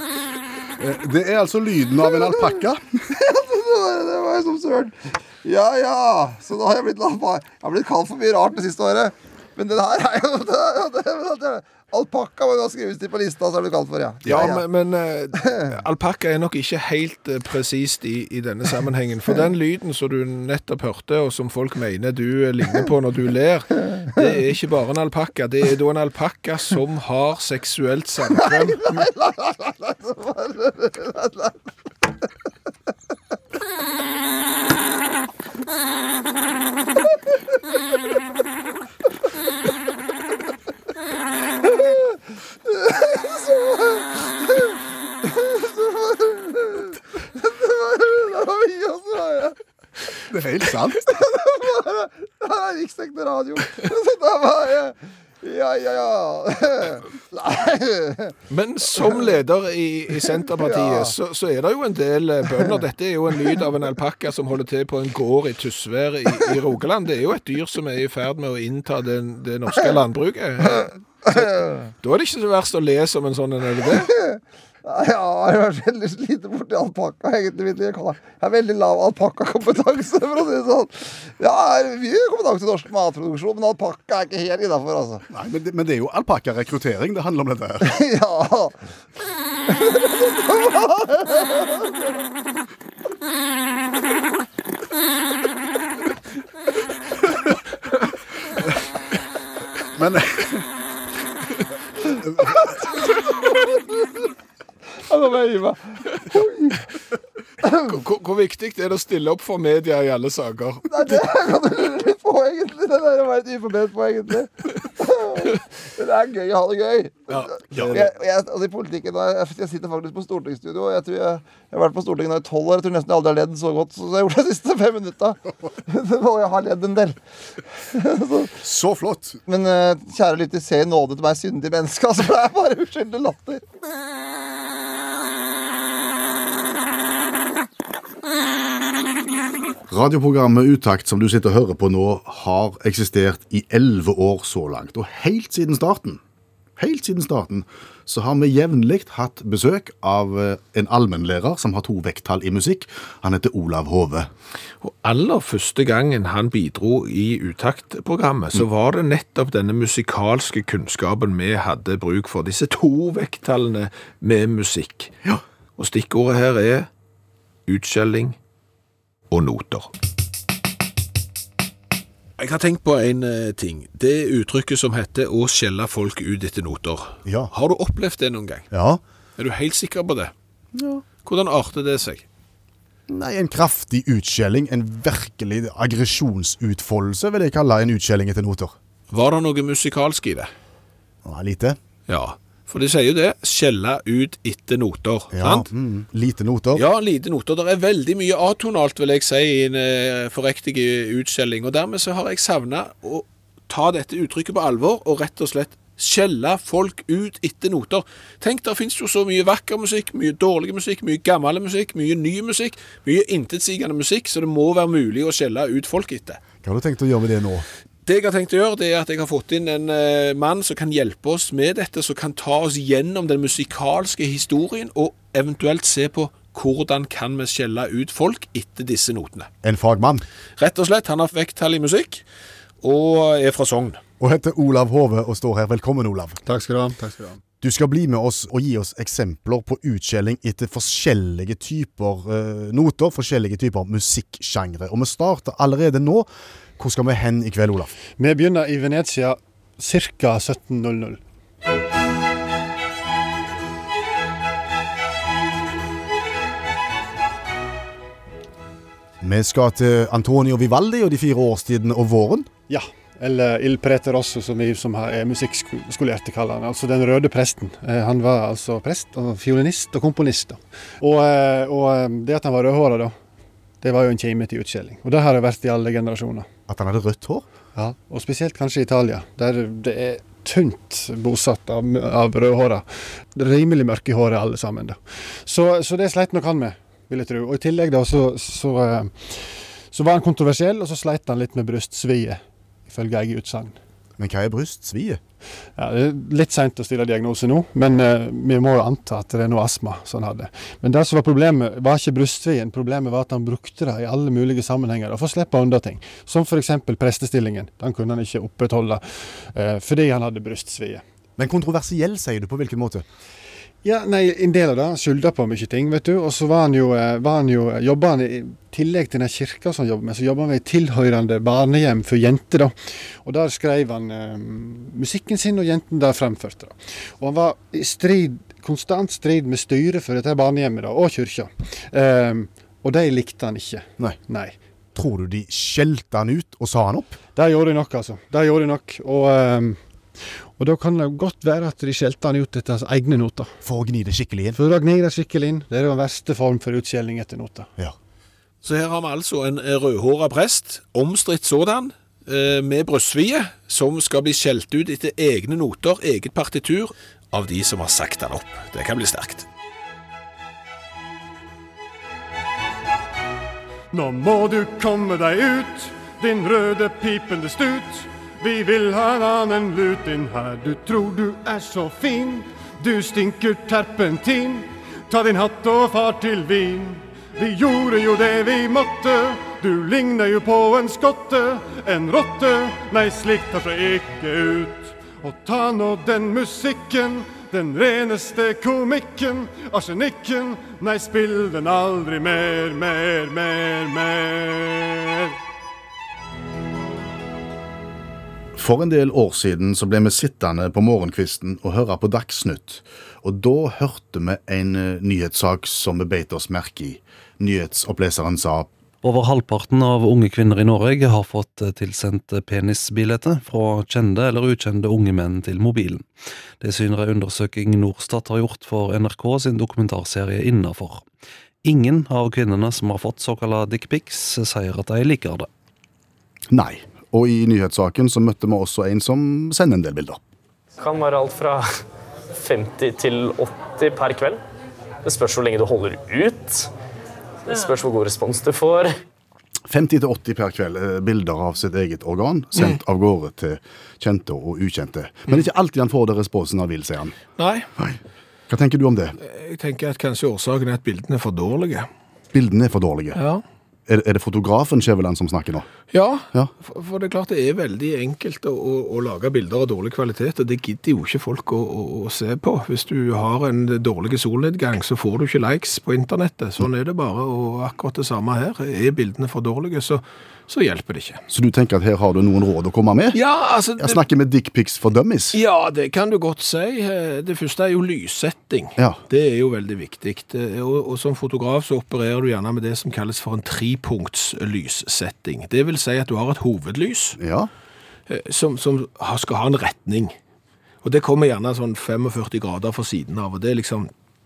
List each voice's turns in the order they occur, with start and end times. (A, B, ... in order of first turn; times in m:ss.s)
0:00.8-0:02.8 A
0:03.1-0:14.6 B
0:14.2-0:28.9 C
0:28.5-0:31.5 B
0:41.6-0:49.6 B
0:50.3-0:51.2 A
0:51.1-0:58.3 B
0:58.5-1:10.9 C
1:00.6-1:01.1 B
1:11.2-1:11.9 B
1:12.0-1:14.1 C
1:14.1-1:25.2 B
1:25.3-1:28.0 A
1:27.8-1:28.8 B
1:29.7-1:31.8 B
1:39.9-1:40.7 A
1:42.1-1:44.3 B
1:42.2-1:42.6 A
1:45.1-1:46.8 B
1:47.8-1:50.9 C
1:50.9-2:07.2 B
1:57.3-1:58.0 C
1:57.8-1:58.1 A
2:07.8-2:08.6 B
2:08.6-2:09.4 A
2:09.5-2:13.6 B
2:19.9-2:26.2 A
2:26.8-2:34.3 A
2:34.8-2:45.2 C
2:45.8-2:46.9 C
2:47.7-2:48.4 C
2:49.3-2:49.9 C
2:52.4-2:58.7 C
2:57.2-2:57.5 A
2:58.7-2:59.0 A
2:59.4-3:00.3 C
3:00.7-3:01.0 A
3:01.2-3:02.2 C
3:03.1-3:08.8 A
3:09.1-3:10.5 C
3:11.2-3:11.8 A
3:12.1-3:15.7 C
3:15.3-3:16.8 A
3:16.7-3:36.4 C
3:36.6-3:37.6 A
3:38.0-3:49.5 C
3:49.6-3:50.2 A
3:50.6-3:52.2 C
3:52.8-3:54.0 C
3:54.2-3:56.4 A
3:56.4-3:57.4 D
3:57.6-4:07.9 A
4:08.2-4:11.2 D
4:19.2-4:22.5 A
4:22.7-4:33.1 D
4:33.8-4:36.4 D
4:36.7-4:37.5 A
4:37.7-4:53.8 D
4:54.2-4:55.2 A
4:55.8-5:11.0 D
5:11.4-5:13.0 A
5:13.8-5:34.5 D
5:34.9-5:37.2 A
5:37.4-5:39.8 D
5:40.6-5:43.5 D
5:43.6-5:44.6 A
5:44.5-5:47.7 D
5:48.6-5:59.5 C
6:03.9-6:35.4 D
6:38.5-6:48.7 A
6:49.0-6:56.1 E
6:56.6-7:01.0 E
7:01.6-7:05.5 E
7:06.5-7:10.2 A
7:10.8-7:11.8 F
7:12.3-7:14.4 F
7:15.0-7:16.7 F
7:17.4-7:18.9 F
7:19.7-7:27.2 A
7:27.4-7:27.7 C
7:28.5-7:29.2 A
7:29.2-7:31.9 C
7:32.3-7:33.2 A
7:33.1-7:33.4 C
7:33.9-7:35.7 A
7:35.9-7:51.2 C
7:51.3-7:53.2 A
7:53.1-7:54.0 C
7:53.8-7:55.4 A
7:55.3-8:07.2 C
8:07.2-8:07.5 A
8:08.1-8:10.2 C
8:10.8-8:13.9 C